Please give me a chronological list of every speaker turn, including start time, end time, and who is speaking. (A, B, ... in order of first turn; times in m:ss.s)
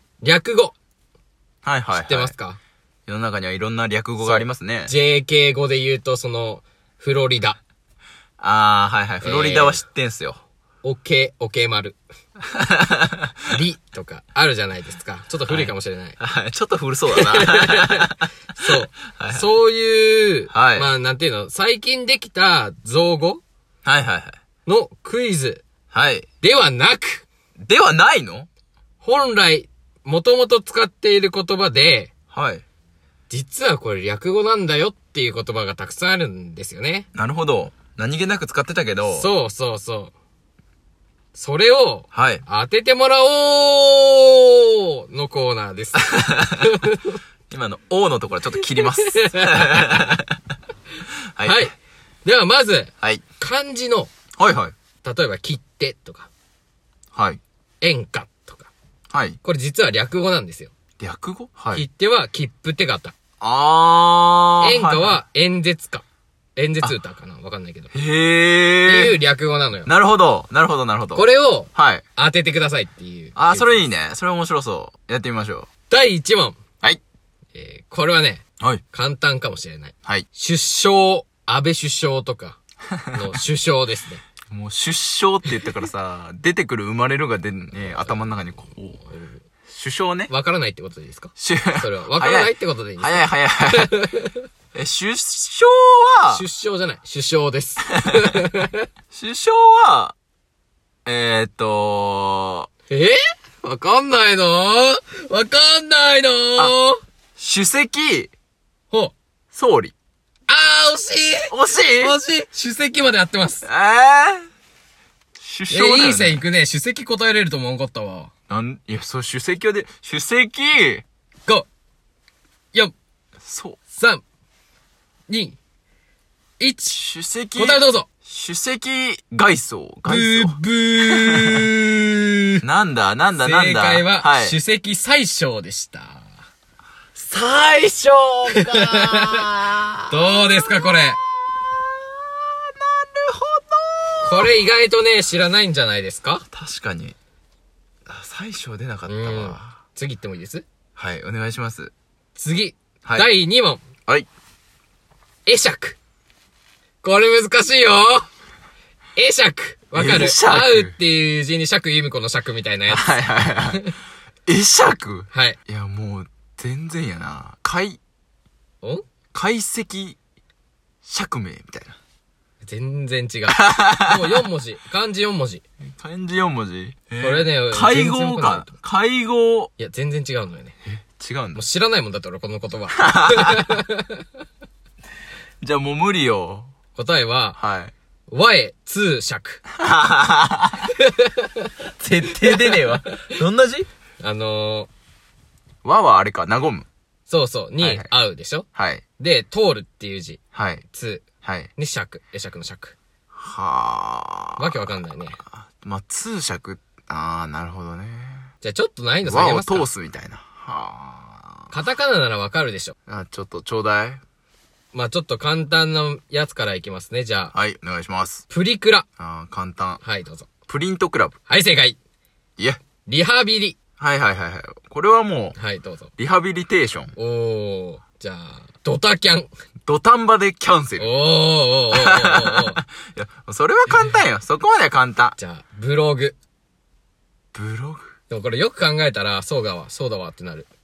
0:00.2-0:00.7 A
0:01.6-0:02.3 B
0:01.9-0:02.6 A
0:03.1-0:04.9 B
0:04.2-0:07.6 A
0:08.4-0:10.4 B
0:09.2-0:09.8 A
0:10.8-0:12.0 A
0:12.5-0:13.3 B
0:13.5-0:16.2 A
0:15.5-0:19.4 B
0:17.1-0:23.4 A
0:20.5-0:20.9 B
0:23.8-0:24.4 B
0:24.6-0:25.6 A
0:25.9-0:26.2 B
0:26.4-0:27.3 A
0:27.6-0:28.5 B
0:29.0-0:32.1 A
0:32.3-0:32.6 B
0:33.3-0:37.1 A
0:37.1-0:39.3 B
0:39.1-0:40.1 A
0:41.3-0:46.1 A
0:42.1-0:42.4 B
0:46.0-0:46.7 B
0:46.6-0:47.2 A
0:47.5-0:50.3 B
0:49.0-0:50.1 A
0:51.3-0:51.7 B
0:51.4-0:51.7 A
0:52.2-0:54.1 A
0:54.4-0:54.7 B
0:55.0-0:56.3 A
0:57.1-0:57.4 B
0:57.8-0:58.7 A
0:59.1-0:59.4 B
0:59.4-1:00.7 A
1:01.0-1:01.8 B
1:01.7-1:03.2 A
1:03.4-1:05.2 B
1:04.6-1:06.0 A
1:06.6-1:07.9 A
1:07.9-1:09.2 B
1:08.8-1:09.9 A
1:09.8-1:12.0 B
1:11.1-1:13.8 A
1:13.4-1:15.7 B
1:15.9-1:16.6 A
1:17.5-1:22.6 A
1:22.9-1:23.2 B
1:23.1-1:24.2 A
1:24.5-1:29.0 B
1:29.0-1:29.4 A
1:29.7-1:30.3 B
1:30.3-1:34.4 A
1:31.4-1:33.9 B
1:34.7-1:36.4 B
1:36.3-1:38.9 A
1:39.1-1:40.2 B
1:41.0-1:42.7 B
1:42.9-1:47.0 A
1:47.4-1:48.3 B
1:49.5-1:49.9 B
1:50.5-1:53.6 A
1:51.5-1:52.1 B
1:53.6-1:54.5 B
1:55.4-1:56.4 B
1:55.7-1:58.3 A
1:58.5-2:01.0 B
2:03.4-2:03.8 B
2:03.9-2:04.2 A
2:05.3-2:05.6 A
2:06.6-2:07.0 A
2:06.9-2:11.6 B
2:07.5-2:08.1 A
2:10.1-2:12.6 A
2:12.6-2:14.6 B
2:13.4-2:16.3 A
2:17.1-2:24.5 B
2:18.5-2:19.4 A
2:20.1-2:21.2 A
2:24.2-2:26.4 A
2:26.5-2:27.2 B
2:28.0-2:29.8 B
2:29.1-2:30.6 A
2:31.0-2:31.9 B
2:32.4-2:33.8 A
2:35.4-2:36.0 A
2:37.0-2:38.3 A
2:39.2-2:43.9 A
2:39.9-2:41.0 B
2:42.9-2:43.9 B
2:44.4-2:48.0 B
2:45.3-2:45.6 A
2:49.3-2:50.2 B
2:51.0-2:52.0 B
2:52.6-2:55.6 A
2:53.5-2:54.4 B
2:55.9-2:59.7 B
2:57.2-2:58.7 A
2:59.8-3:00.7 A
3:00.9-3:01.6 B
3:01.5-3:04.2 A
3:03.0-3:03.7 B
3:05.6-3:06.7 B
3:06.9-3:07.6 A
3:07.6-3:07.9 B
3:08.3-3:09.6 A
3:09.8-3:10.9 B
3:11.0-3:11.7 A
3:12.0-3:13.9 B
3:12.5-3:13.3 A
3:14.2-3:14.9 A
3:15.8-3:16.9 B
3:17.3-3:18.7 A
3:17.8-3:18.1 B
3:18.7-3:19.0 B
3:19.2-3:20.4 A
3:20.5-3:20.8 B
3:20.9-3:21.2 A
3:21.4-3:21.7 B
3:21.8-3:23.0 A
3:23.3-3:24.8 B
3:24.6-3:25.4 A
3:25.6-3:28.5 B
3:28.6-3:29.9 A
3:29.2-3:31.7 B
3:31.7-3:32.9 A
3:33.1-3:34.2 B
3:34.9-3:37.5 A
3:37.5-3:38.4 B
3:38.5-3:39.0 A
3:39.2-3:40.0 B
3:40.0-3:40.5 A
3:40.7-3:41.3 B
3:41.5-3:42.0 A
3:43.0-3:43.8 A
3:44.0-3:45.6 B
3:45.6-3:46.1 A
3:46.2-3:47.1 B
3:47.2-3:49.5 A
3:49.8-3:51.1 B
3:51.0-3:52.8 A
3:51.9-3:55.4 B
3:55.4-3:56.4 A
3:57.5-3:58.1 B
3:58.3-4:00.7 A